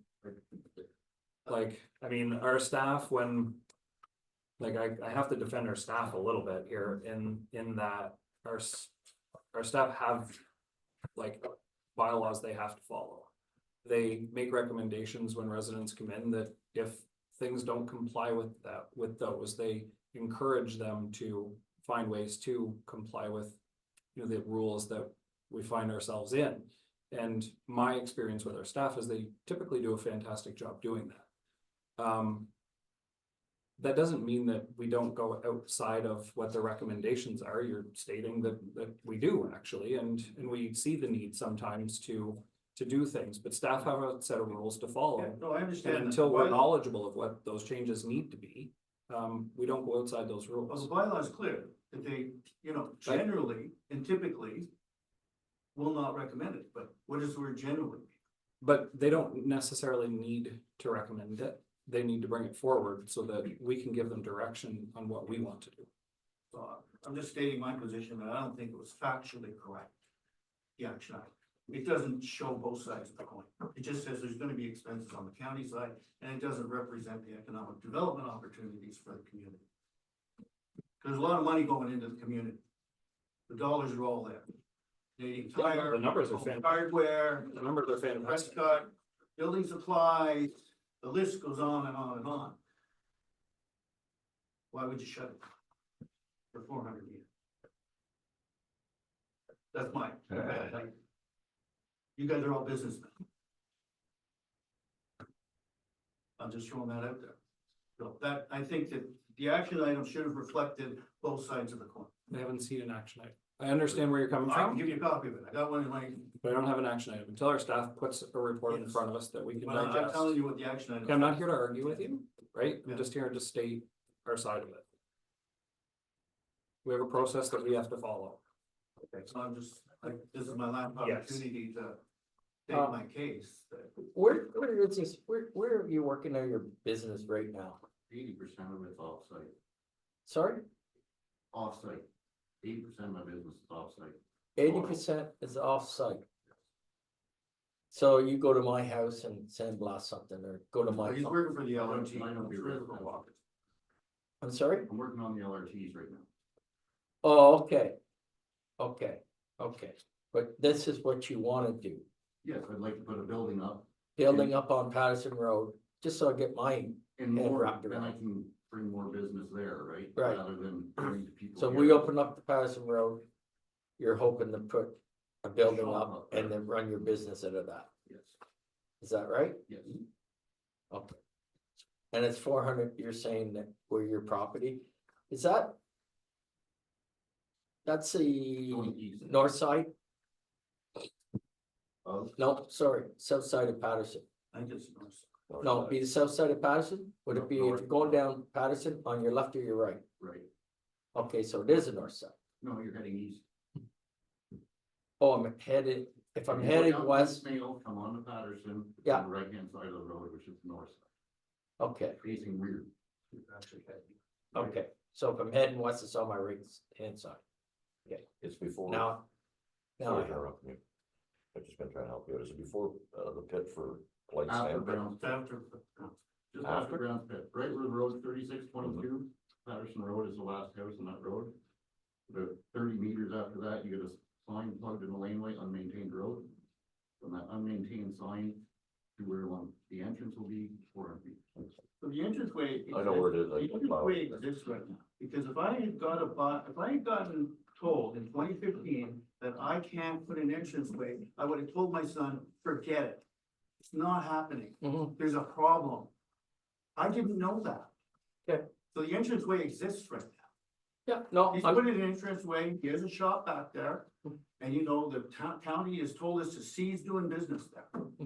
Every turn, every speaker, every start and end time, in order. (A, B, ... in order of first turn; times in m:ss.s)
0:01.5-0:03.6 A
0:04.6-0:08.9 A
0:09.5-0:10.4 A
0:11.2-0:13.3 A
0:13.8-0:23.6 A
0:24.1-0:31.3 A
0:32.0-0:32.5 A
0:33.8-0:50.9 A
0:45.2-0:46.6 B
0:50.7-0:54.7 B
0:55.8-0:58.1 B
0:58.6-1:05.9 A
1:06.5-1:09.9 B
1:10.8-1:19.6 B
1:21.0-1:22.6 B
1:23.5-1:24.5 B
1:25.2-1:27.5 B
1:25.6-1:26.8 A
1:27.4-1:28.6 A
1:28.2-1:32.6 B
1:34.7-1:35.4 B
1:36.5-1:37.3 B
1:39.7-1:40.9 B
1:42.2-1:43.1 B
1:46.4-1:47.4 B
1:48.0-1:52.1 B
1:52.3-1:54.8 A
1:54.4-1:56.3 B
1:56.4-2:00.4 A
1:58.7-1:59.0 B
1:59.6-2:01.6 B
2:01.0-2:04.8 A
2:06.8-2:08.4 A
2:09.0-2:12.0 B
2:11.0-2:11.4 A
2:12.7-2:14.0 B
2:14.1-2:17.8 C
2:18.1-2:19.5 D
2:20.3-2:20.6 C
2:21.5-2:22.1 D
2:22.6-2:25.0 D
2:24.6-2:26.3 C
2:27.9-2:31.4 C
2:31.0-2:33.4 B
2:31.8-2:33.2 D
2:34.4-2:34.9 C
2:34.9-2:36.3 D
2:37.2-2:38.0 C
2:38.8-2:42.1 C
2:42.4-2:44.5 D
2:44.2-2:48.2 C
2:47.2-2:52.1 D
2:50.2-2:50.4 C
2:51.6-2:53.2 C
2:54.0-2:57.9 C
2:55.6-2:56.6 D
2:58.1-2:58.3 D
2:59.0-2:59.7 C
2:59.7-3:00.0 D
3:00.9-3:01.2 C
3:02.1-3:05.8 C
3:07.8-3:09.9 C
3:08.7-3:09.4 D
3:12.0-3:12.3 D
3:12.4-3:14.2 C
3:14.5-3:15.4 B
3:15.5-3:16.0 E
3:15.6-3:20.0 C
3:17.3-3:18.2 D
3:20.2-3:20.5 D
3:21.1-3:22.4 C
3:22.6-3:23.4 D
3:25.2-3:27.4 C
3:26.5-3:31.1 D
3:31.8-3:32.2 C
3:32.2-3:32.9 D
3:33.4-3:34.1 B
3:34.5-3:37.4 C
3:38.4-3:39.1 E
3:38.9-3:39.2 C
3:40.0-3:40.4 C
3:40.0-3:40.8 E
3:41.5-3:45.1 E
3:44.4-3:45.4 D
3:45.2-3:46.2 B
3:46.5-3:51.6 D
3:46.6-3:47.0 E
3:52.3-3:56.6 D
3:57.2-3:58.6 D
3:59.2-4:01.6 D
4:02.0-4:13.2 B
4:02.9-4:04.4 E
4:13.8-4:16.1 B
4:14.8-4:15.1 C
4:17.0-4:17.9 B
4:18.9-4:20.5 B
4:21.1-4:21.8 C
4:21.5-4:28.1 B